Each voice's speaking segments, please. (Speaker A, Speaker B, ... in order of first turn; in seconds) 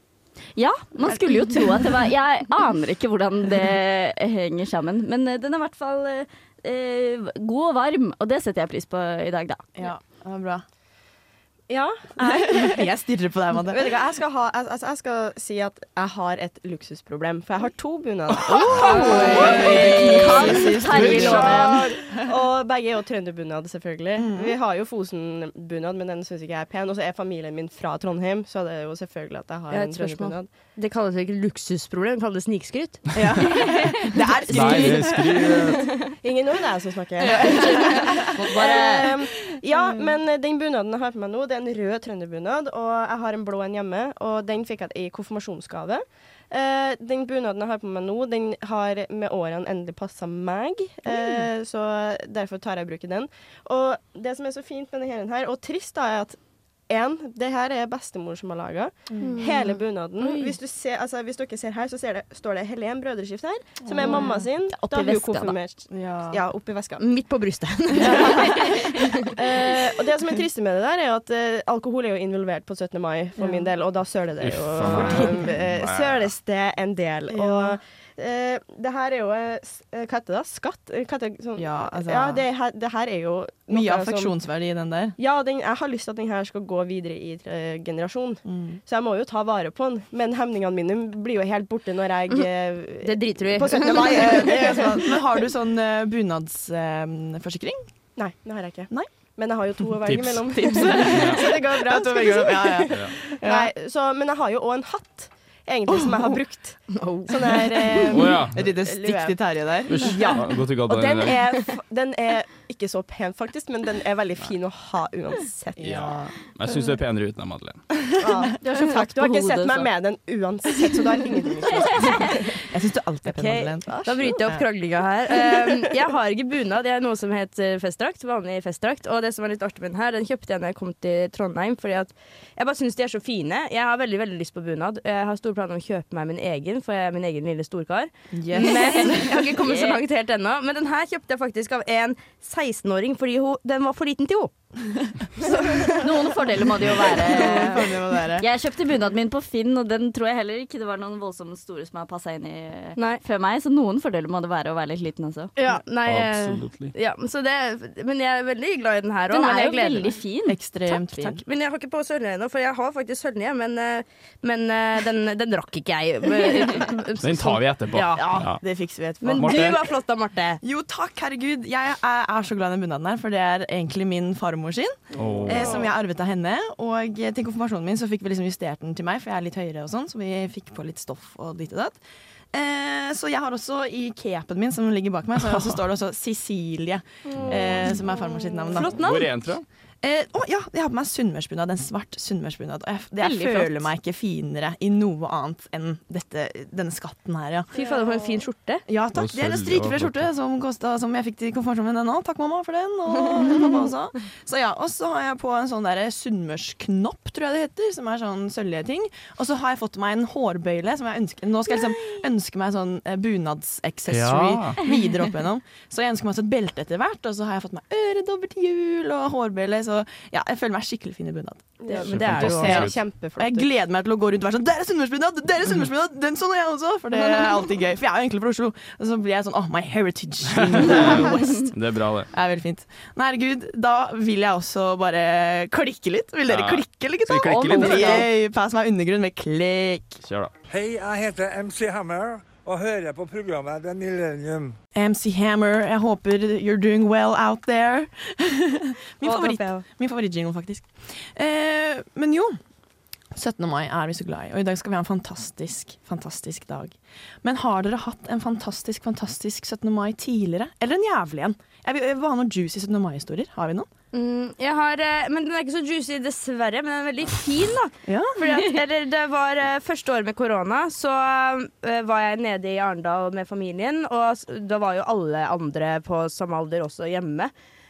Speaker A: 0.6-9.7, 18.8-21.8, 64.7-65.5, 118.6-119.9, 139.6-140.0, 145.8-147.8, 148.4-155.5, 159.3-161.3, 237.5-238.3
Speaker B: 9.8-10.6, 12.2-13.9, 18.6-22.1, 24.2-24.5, 33.1-35.5, 37.2-38.3, 39.7-40.0, 59.1-59.6, 63.8-64.4, 65.9-66.4, 67.9-68.4, 73.4-73.7, 77.3-77.8, 81.5-82.4, 83.7-85.2, 88.5-88.8, 93.9-97.9, 100.6-103.7, 105.9-106.4, 107.4-110.2, 115.8-116.3, 122.6-124.6, 138.3-139.3, 147.1-148.5, 160.5-161.4, 168.2-169.8, 170.6-182.0, 182.5-189.0, 190.0-197.7, 198.9-231.7, 232.3-240.2, 244.9-252.6, 253.3-263.9, 268.1-268.5
Speaker C: 11.7-12.9, 13.7-30.5, 36.2-56.4, 56.9-67.0, 67.9-84.3, 85.2-95.2, 98.2-109.4, 110.0-110.3, 110.9-116.0, 118.2-122.6, 123.9-124.6, 125.3-125.8, 197.7-198.4, 221.8-223.7
Speaker D: 29.7-33.0, 38.3-39.1, 59.2-59.5, 60.2-60.5, 67.0-69.3, 93.0-94.8, 106.9-107.3, 123.2-144.5, 145.4-146.0, 153.0-153.2, 155.6-160.1, 161.3-168.6, 169.2-170.6, 175.4-175.8, 188.7-189.3, 193.2-193.9, 197.7-198.8, 221.9-222.9, 249.2-249.8, 264.1-277.5
Speaker E: 34.5-35.8, 74.4-76.3, 100.1-101.5, 108.1-108.6, 109.9-111.4, 115.8-118.1, 156.0-156.9, 167.2-168.6, 169.3-169.8, 175.1-175.7, 188.9-189.6, 199.1-200.3, 214.1-214.8, 222.0-223.0, 230.5-232.3, 236.5-238.2, 240.2-240.5
Speaker F: 240.7-244.7